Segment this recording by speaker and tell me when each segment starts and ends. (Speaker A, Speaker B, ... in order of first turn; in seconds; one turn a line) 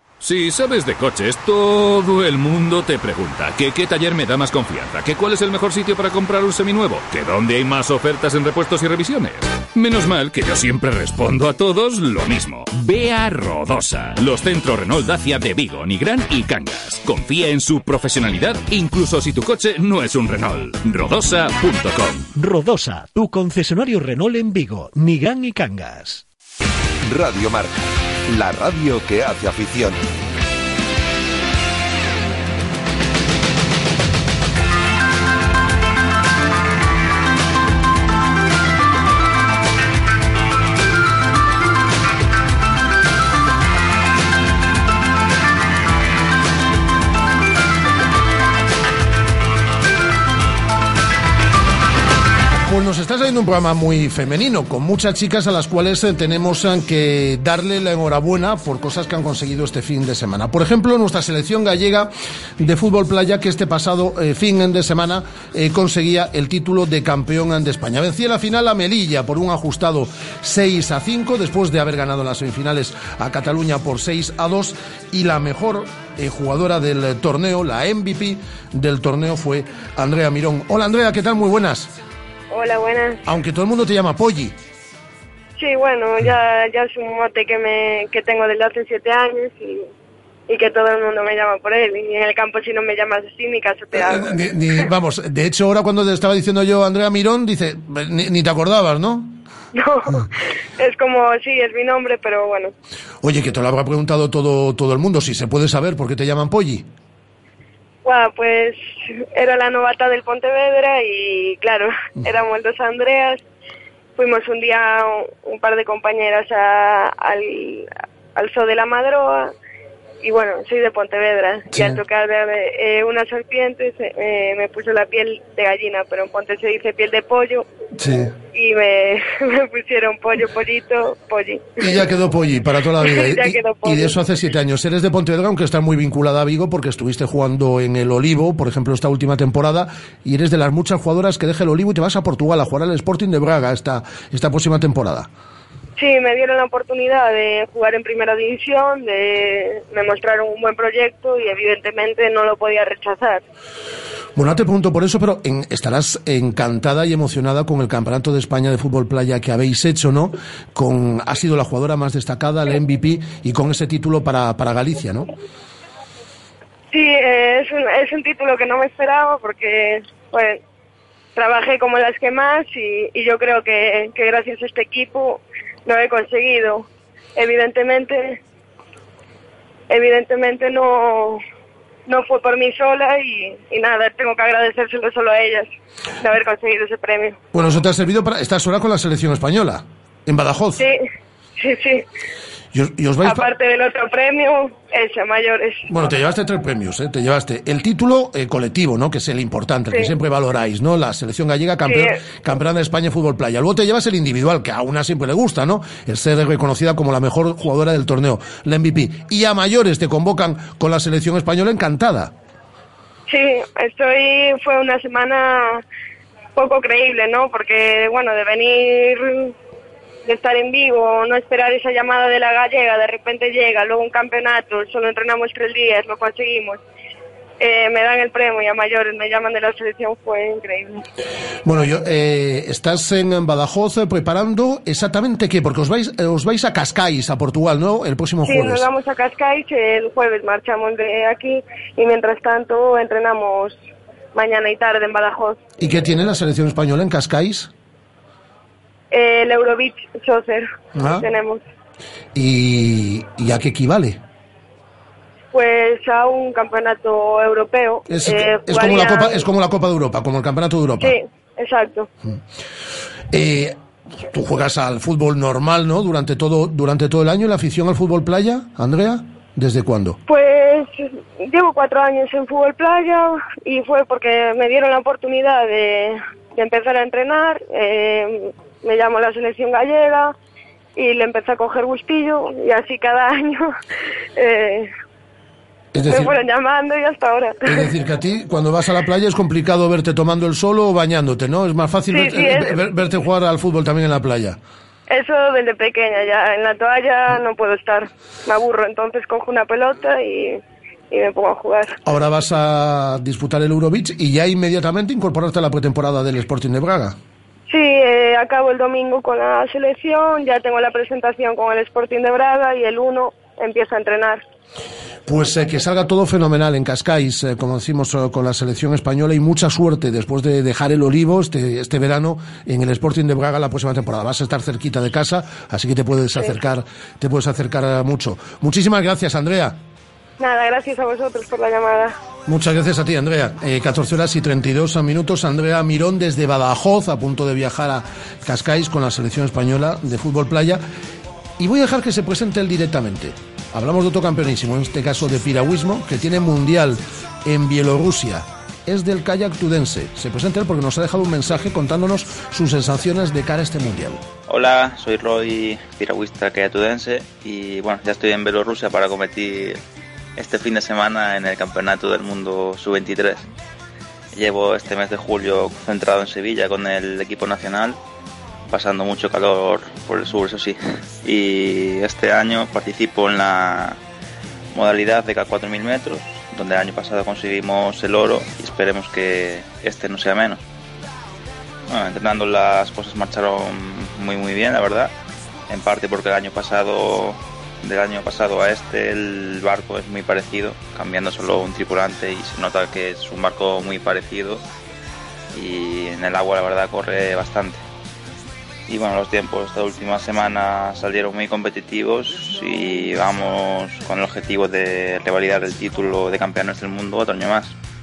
Speaker A: 0.2-22.3
Speaker B: 22.4-26.2
Speaker C: 27.1-30.0
Speaker D: 52.6-81.9
Speaker E: 82.5-83.2
Speaker D: 83.2-84.6
Speaker E: 85.6-89.9
Speaker E: 90.5-94.4
Speaker D: 93.9-99.3
Speaker E: 99.8-102.7
Speaker D: 103.2-106.9
Speaker E: 108.0-113.4
Speaker E: 114.2-119.5
Speaker E: 120.2-127.7
Speaker D: 121.7-122.0
Speaker D: 128.0-128.3
Speaker E: 128.5-132.0
Speaker D: 131.8-145.3
Speaker E: 133.0-134.2
Speaker E: 146.0-153.4
Speaker D: 154.4-165.3
Speaker E: 166.9-170.6
Speaker E: 171.3-178.4
Speaker E: 179.9-181.4
Speaker E: 182.1-185.7
Speaker E: 186.2-187.4
Speaker D: 187.5-190.9
Speaker E: 191.6-192.1
Speaker D: 192.7-193.5
Speaker E: 193.2-195.9
Speaker D: 195.9-212.3
Speaker E: 201.9-202.1
Speaker E: 213.3-215.8
Speaker E: 216.6-219.5
Speaker E: 220.3-226.8
Speaker E: 227.6-231.0
Speaker D: 231.7-238.9
Speaker E: 238.4-243.8
Speaker E: 244.3-245.6
Speaker D: 245.8-247.7
Speaker E: 249.1-251.6
Speaker D: 250.9-251.3
Speaker D: 252.3-254.2
Speaker E: 255.5-259.4
Speaker D: 258.1-261.2
Speaker E: 261.0-262.1
Speaker D: 263.3-263.8
Speaker D: 264.3-270.2
Speaker E: 270.3-280.3
Speaker E: 281.0-283.7
Speaker E: 284.4-284.9
Speaker D: 285.9-286.4
Speaker E: 286.1-287.9
Speaker D: 287.7-294.6
Speaker E: 292.1-292.8
Speaker E: 295.1-302.0
Speaker D: 302.1-307.2
Speaker E: 307.7-314.4
Speaker D: 315.3-329.8
Speaker E: 330.4-332.2
Speaker D: 332.5-340.8
Speaker D: 341.6-354.2
Speaker F: 354.5-359.8
Speaker F: 360.4-363.5
Speaker F: 364.3-368.0
Speaker F: 368.7-374.0
Speaker F: 374.7-380.6
Speaker F: 381.9-385.1
Speaker F: 385.7-394.6
Speaker F: 395.5-397.8
Speaker F: 398.9-407.8